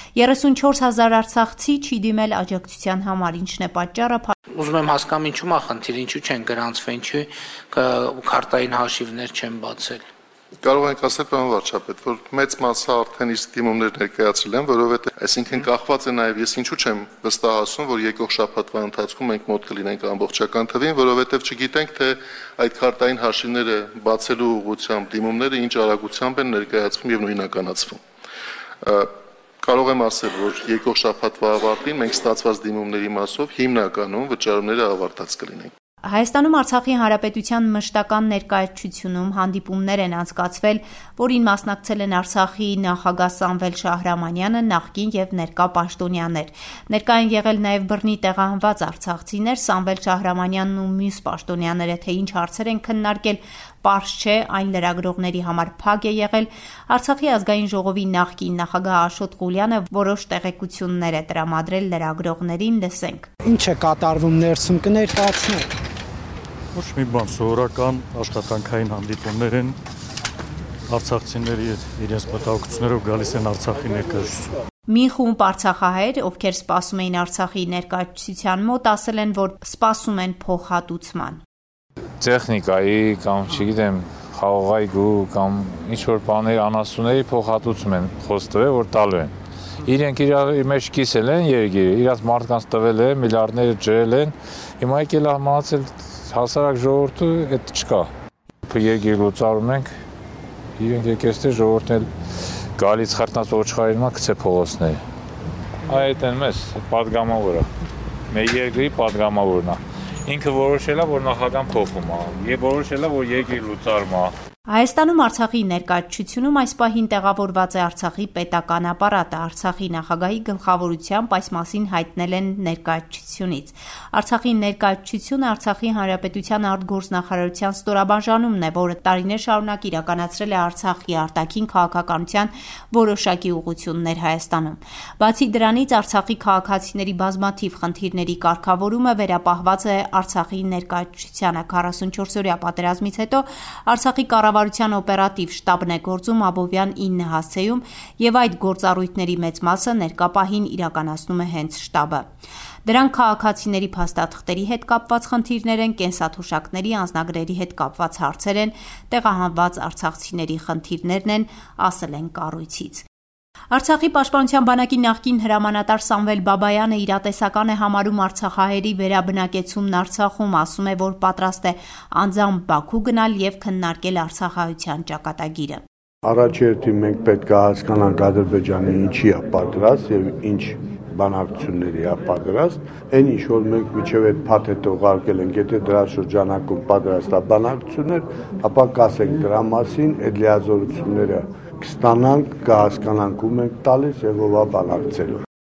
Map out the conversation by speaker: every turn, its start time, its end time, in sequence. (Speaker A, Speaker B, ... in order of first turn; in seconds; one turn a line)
Speaker A: 0.2-4.3
Speaker B: 4.5-10.0
Speaker C: 10.6-28.0
Speaker C: 28.8-29.1
Speaker C: 29.6-35.7
Speaker A: 36.0-63.3
Speaker D: 63.4-65.7
Speaker E: 66.8-69.8
Speaker E: 70.9-74.5
Speaker A: 74.9-81.4
Speaker F: 82.2-89.3
Speaker F: 89.8-98.1
Speaker F: 98.7-99.9
Speaker F: 100.8-102.1
Speaker F: 102.8-105.0
Speaker F: 105.9-107.7
Speaker F: 108.3-114.3
Speaker A: 114.7-152.3
Speaker A: 152.9-163.1
Speaker A: 163.7-175.8
Speaker G: 176.2-195.4